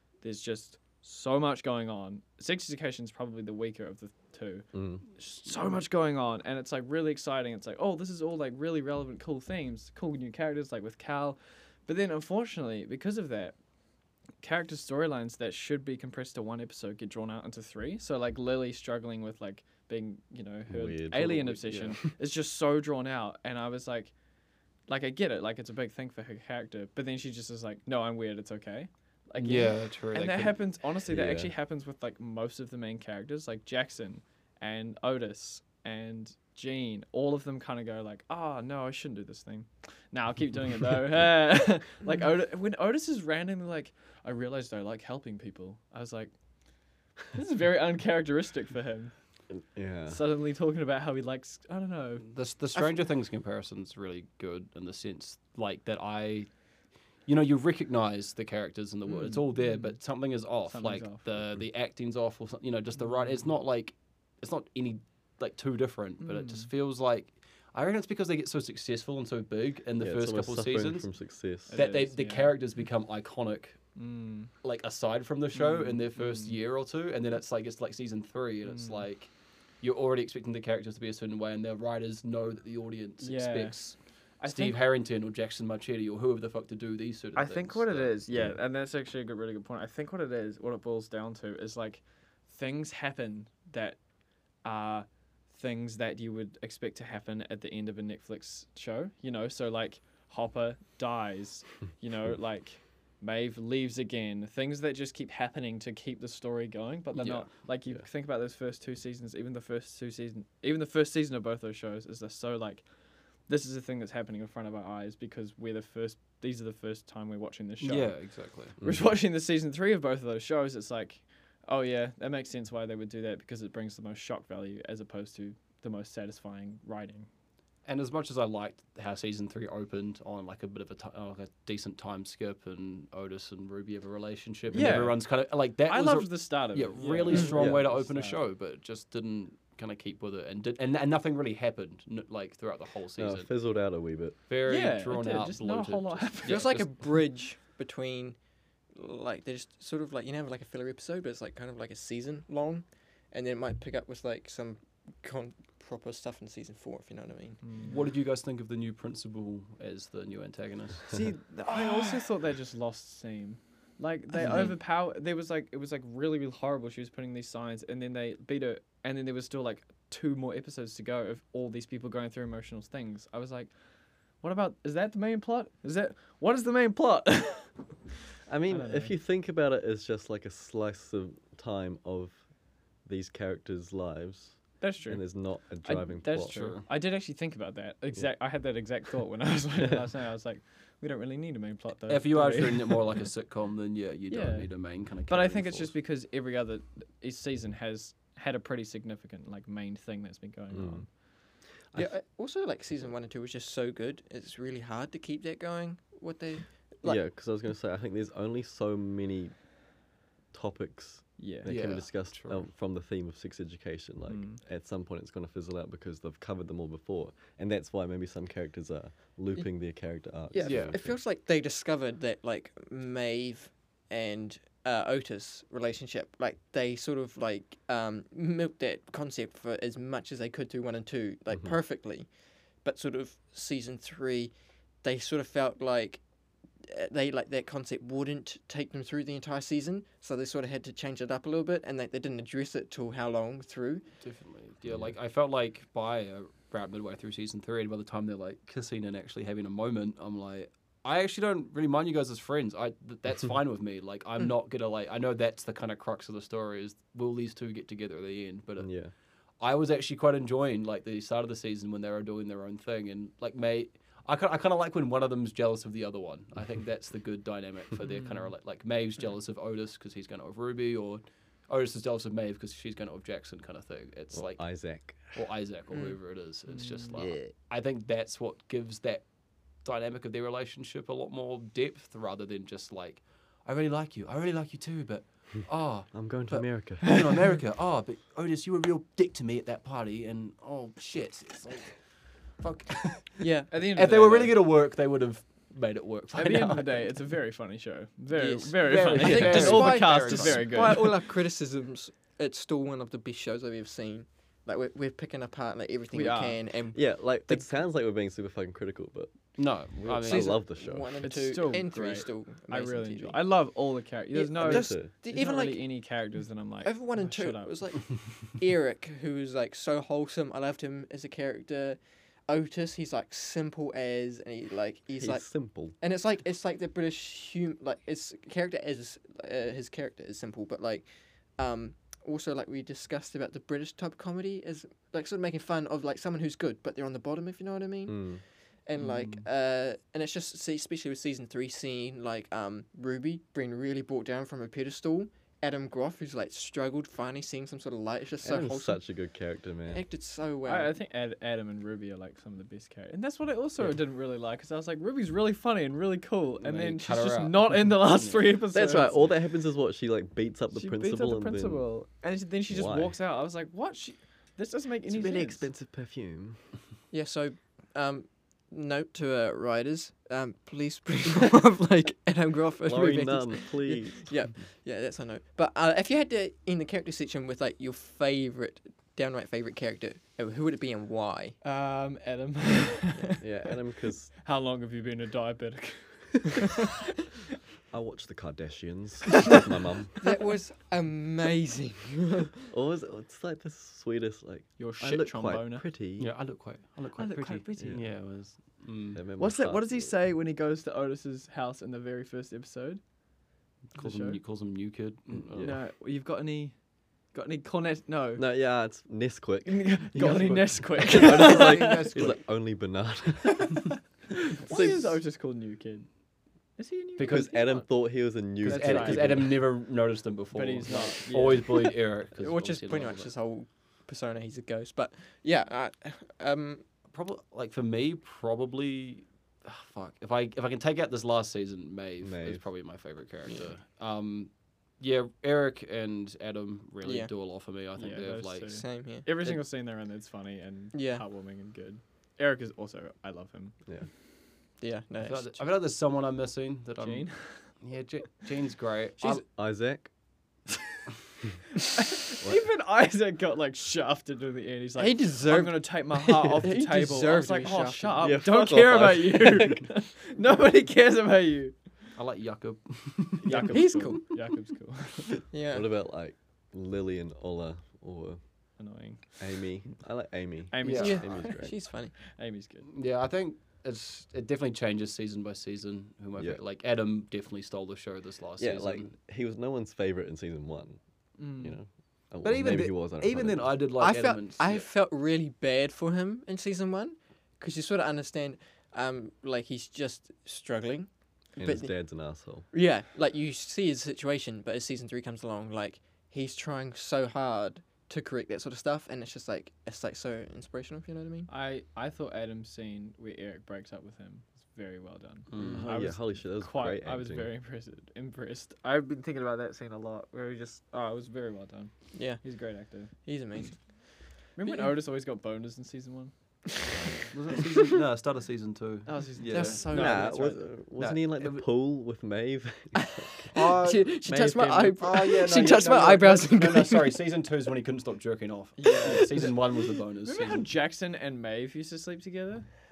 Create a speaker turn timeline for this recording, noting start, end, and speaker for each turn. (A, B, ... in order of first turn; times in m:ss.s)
0:00.2-0:13.6 A
0:04.7-0:05.0 B
0:14.4-0:24.1 A
0:20.7-0:22.0 B
0:24.9-0:46.3 A
0:29.4-0:30.6 C
0:31.1-0:31.5 B
0:47.3-0:49.2 A
0:49.7-0:50.2 B
0:50.1-0:52.3 A
0:52.2-0:56.5 C
0:57.2-1:11.1 C
0:59.2-1:00.0 A
1:00.7-1:01.3 A
1:06.2-1:06.7 A
1:10.0-1:11.8 B
1:11.7-1:12.6 A
1:11.7-1:13.8 C
1:14.0-1:14.5 A
1:14.6-1:28.1 C
1:15.5-1:16.6 A
1:18.7-1:19.0 A
1:23.2-1:24.8 A
1:27.4-1:34.0 A
1:28.3-1:28.6 B
1:34.6-1:52.9 A
1:47.1-1:47.5 C
1:53.4-2:07.3 A
1:57.8-1:58.8 C
1:58.8-1:59.1 B
2:07.8-2:23.5 C
2:14.7-2:15.1 B
2:14.7-2:18.4 A
2:17.5-2:17.9 B
2:23.2-2:24.4 B
2:24.5-2:27.1 C
2:24.6-2:26.7 A
2:26.5-2:28.4 D
2:28.9-2:37.6 D
2:37.6-2:38.0 A
2:37.8-2:41.2 C
2:41.1-2:53.8 A
2:41.7-2:42.1 D
2:44.4-2:44.7 D
2:54.3-2:57.9 A
2:58.5-3:02.4 B
2:58.7-2:59.2 A
3:03.0-3:06.6 B
3:04.8-3:13.0 A
3:06.5-3:06.9 C
3:12.1-3:15.9 C
3:14.3-3:21.1 A
3:20.7-3:21.1 B
3:22.0-3:27.2 D
3:27.0-3:29.7 B
3:30.5-3:41.2 B
3:31.4-3:31.8 A
3:31.7-3:32.7 C
3:34.3-3:34.6 A
3:40.5-3:56.2 D
3:40.6-3:41.0 C
3:56.8-4:04.0 D
4:04.2-4:19.1 C
4:04.9-4:05.1 B
4:18.8-4:19.1 B
4:19.6-4:39.3 C
4:34.3-4:35.4 B
4:37.2-4:37.5 B
4:39.8-4:57.2 C
4:46.1-4:47.2 B
4:53.4-4:53.7 D
4:53.7-4:54.6 A
4:56.3-5:01.0 A
4:58.3-5:07.8 D
4:58.8-5:01.1 C
5:06.1-5:06.6 A
5:06.9-5:11.2 B
5:09.6-5:10.6 C
5:10.2-5:13.5 D
5:11.2-5:17.8 A
5:14.3-5:15.9 D
5:14.6-5:15.1 B
5:16.8-5:49.0 D
5:25.2-5:26.0 B
5:38.1-5:38.4 B
5:39.0-5:39.4 C
5:48.4-5:50.0 B
5:49.9-5:50.9 D
5:50.6-5:59.2 A
5:56.6-5:58.5 C
5:58.7-6:01.9 B
6:00.7-6:05.7 A
6:02.7-6:03.2 B
6:05.1-6:06.6 B
6:07.1-6:21.6 D
6:12.8-6:14.4 B
6:21.6-6:23.6 A
6:23.4-6:24.3 B
6:24.3-6:26.8 A
6:27.9-6:30.2 B
6:30.2-6:32.7 D
6:32.7-6:36.3 B
6:34.8-6:35.9 A
6:36.2-6:39.2 C
6:37.2-6:38.1 A
6:39.1-6:40.2 B
6:39.4-6:43.0 A
6:43.9-6:45.7 C
6:44.0-6:44.4 A
6:45.5-6:45.8 B
6:45.6-6:46.8 A
6:47.3-6:48.5 A
6:48.4-6:54.0 B
6:49.7-6:52.1 A
6:51.1-6:52.4 C
6:54.5-6:56.1 A
6:54.6-6:55.2 B
6:56.8-6:57.9 A
6:57.2-6:57.6 C
6:57.2-6:59.5 B
6:58.6-6:59.5 A
6:58.6-7:03.3 C
7:00.5-7:02.0 A
7:02.4-7:06.8 D
7:07.1-7:18.8 C
7:12.2-7:12.6 B
7:17.0-7:17.3 D
7:18.0-7:23.8 A
7:18.7-7:19.3 D
7:20.9-7:21.2 D
7:24.8-7:25.7 D
7:25.2-7:29.4 C
7:27.0-7:27.7 A
7:29.5-7:30.1 B
7:32.0-7:41.8 A
7:35.0-7:38.4 D
7:38.2-7:39.9 B
7:42.2-7:44.0 C
7:43.4-7:45.4 A
7:43.6-7:44.4 D
7:45.5-7:45.9 D
7:45.7-7:48.4 B
7:48.8-7:49.6 A
7:49.4-7:51.7 B
7:50.7-7:51.6 A
7:50.8-7:51.2 C
7:50.9-7:52.1 D
7:52.3-7:52.9 A
7:52.9-7:59.1 C
7:58.6-8:01.0 B
8:01.4-8:01.8 A
8:01.6-8:03.8 B
8:02.4-8:04.9 C
8:04.0-8:21.5 D
8:11.6-8:12.7 B
8:21.5-8:33.1 A
8:25.5-8:25.9 C
8:25.6-8:27.5 B
8:32.1-8:33.9 D
8:34.6-8:36.3 A
8:34.6-8:34.9 D
8:37.3-8:39.9 C
8:39.1-8:40.6 A
8:39.5-8:40.6 D
8:39.9-8:43.5 B
8:41.0-8:41.6 C
8:43.5-8:44.2 C
8:43.5-8:47.2 D
8:44.3-8:45.0 B
8:45.0-8:50.7 C
8:48.8-8:49.6 A
8:49.0-8:49.3 D
8:50.2-8:52.7 A